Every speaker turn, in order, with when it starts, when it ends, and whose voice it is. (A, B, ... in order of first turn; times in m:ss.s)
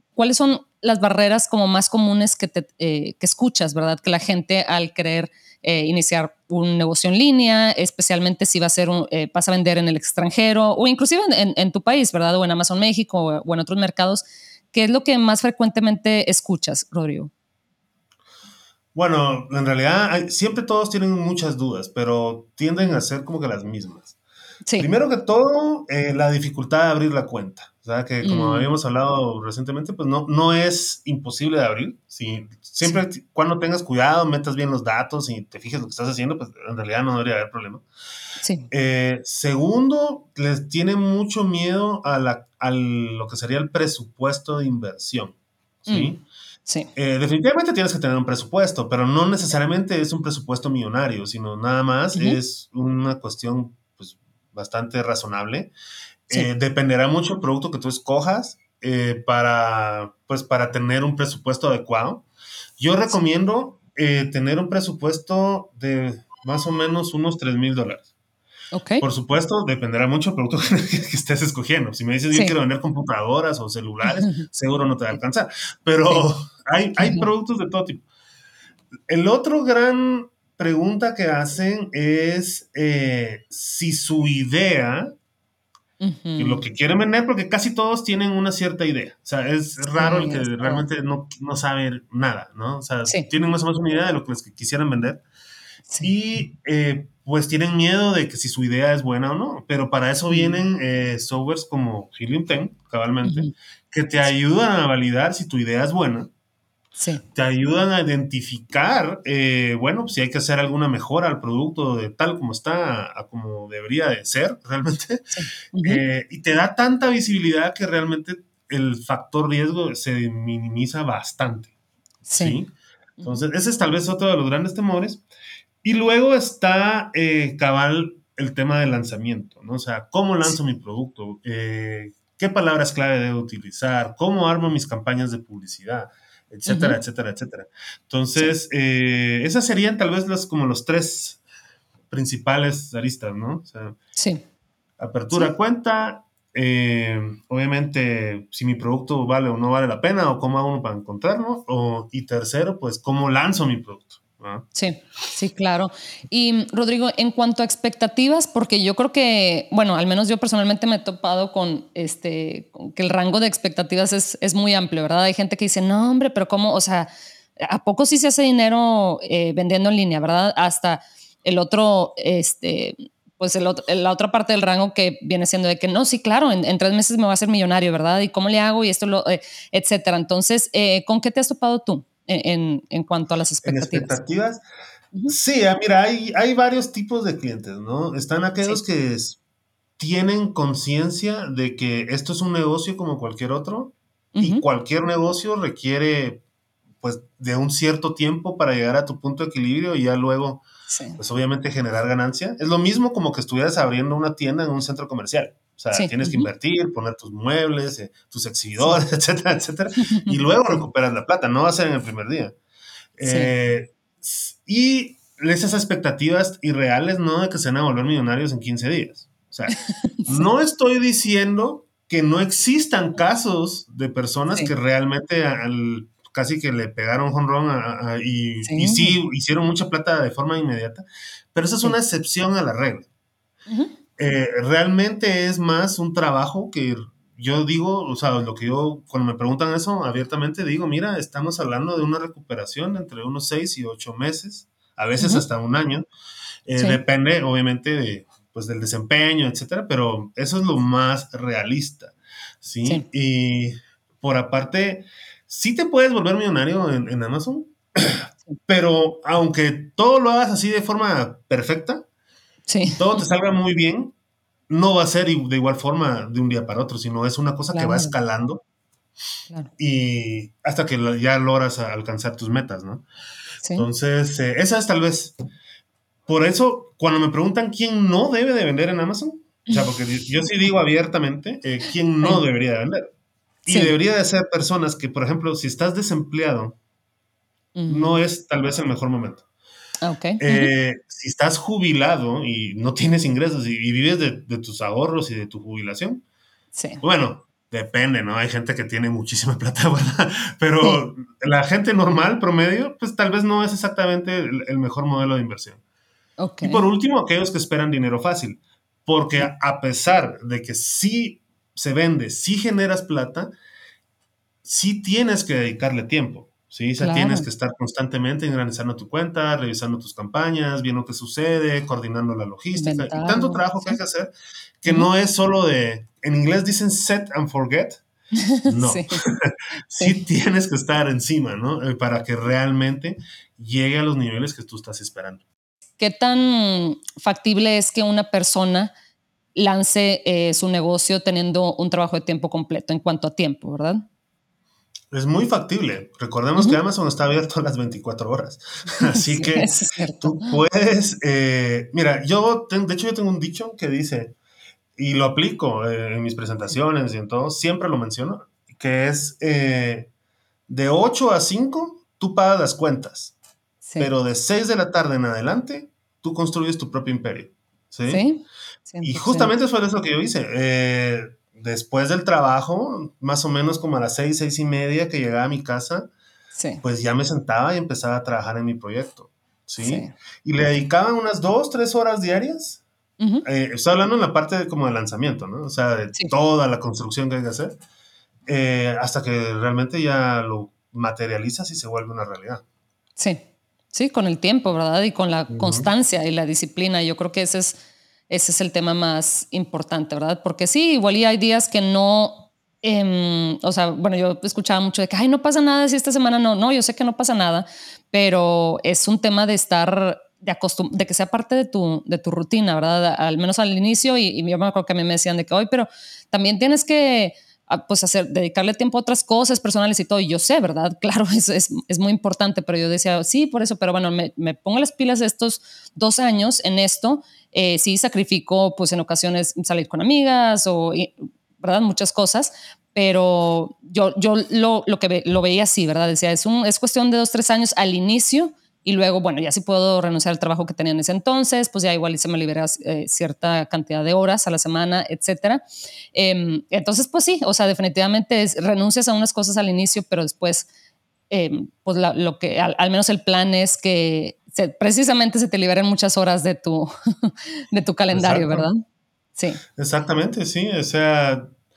0:00.2-0:17.3 A
0:18.9-0:24.2 B
0:24.8-0:37.8 B
0:28.2-0:28.7 A
0:38.4-0:38.7 A
0:38.7-0:46.2 B
0:45.9-0:46.1 A
0:47.0-0:55.7 B
0:56.3-1:02.2 B
1:02.8-1:08.1 B
1:08.7-1:09.0 A
1:09.0-1:18.0 B
1:14.1-1:14.5 A
1:17.0-1:17.3 A
1:19.1-1:25.1 B
1:26.0-1:26.6 A
1:26.4-1:35.2 B
1:30.0-1:30.8 A
1:36.0-1:46.3 B
1:40.3-1:40.6 A
1:43.2-1:43.5 A
1:47.0-1:47.2 A
1:47.3-1:55.2 B
1:55.3-1:56.0 A
1:55.8-2:01.7 B
2:02.3-2:02.6 A
2:02.3-2:02.7 B
2:03.2-2:05.2 B
2:05.8-2:21.4 B
2:16.7-2:17.0 A
2:22.1-2:24.0 B
2:24.2-2:24.4 A
2:25.0-2:34.7 B
2:34.7-3:04.2 A
3:03.6-3:04.6 B
3:05.3-3:09.4 B
3:10.0-3:16.4 B
3:14.3-3:14.6 A
3:17.0-3:20.6 B
3:20.9-3:21.2 A
3:21.2-3:32.5 B
3:25.9-3:26.5 A
3:30.0-3:30.7 A
3:33.2-3:39.7 B
3:33.2-3:33.5 A
3:39.7-3:40.5 A
3:40.3-3:51.0 B
3:48.6-3:49.2 A
3:51.5-3:53.1 B
3:54.2-4:06.0 B
4:05.2-4:05.4 A
4:06.7-4:22.0 B
4:22.7-4:23.2 A
4:22.9-4:24.1 B
4:24.7-4:28.6 B
4:27.7-4:28.1 A
4:29.8-4:33.0 B
4:33.7-4:35.3 B
4:36.3-4:43.1 B
4:43.6-4:46.8 B
4:43.7-4:43.9 A
4:47.8-4:48.1 A
4:47.9-4:49.4 B
4:50.0-4:50.7 A
4:50.4-4:56.2 B
4:56.7-4:57.0 A
4:57.0-5:05.8 B
5:06.4-5:06.8 A
5:06.6-5:13.5 B
5:14.6-5:24.3 B
5:17.0-5:17.5 A
5:22.8-5:24.0 A
5:24.8-5:28.0 B
5:28.4-5:29.2 A
5:28.6-5:35.4 B
5:36.0-5:38.9 A
5:39.5-5:44.0 A
5:45.1-5:54.3 B
5:49.1-5:50.6 A
5:55.0-6:00.1 B
6:00.7-6:03.3 B
6:03.8-6:04.1 A
6:04.0-6:08.2 B
6:08.1-6:09.5 A
6:09.0-6:16.1 B
6:16.6-6:16.8 A
6:16.8-6:22.8 B
6:19.8-6:20.1 A
6:23.2-6:23.4 A
6:23.4-6:27.8 B
6:28.5-6:32.6 B
6:33.9-6:37.8 A
6:35.5-6:35.9 B
6:38.3-7:30.7 A
7:31.3-7:38.8 A
7:38.1-7:38.7 B
7:39.8-7:41.5 B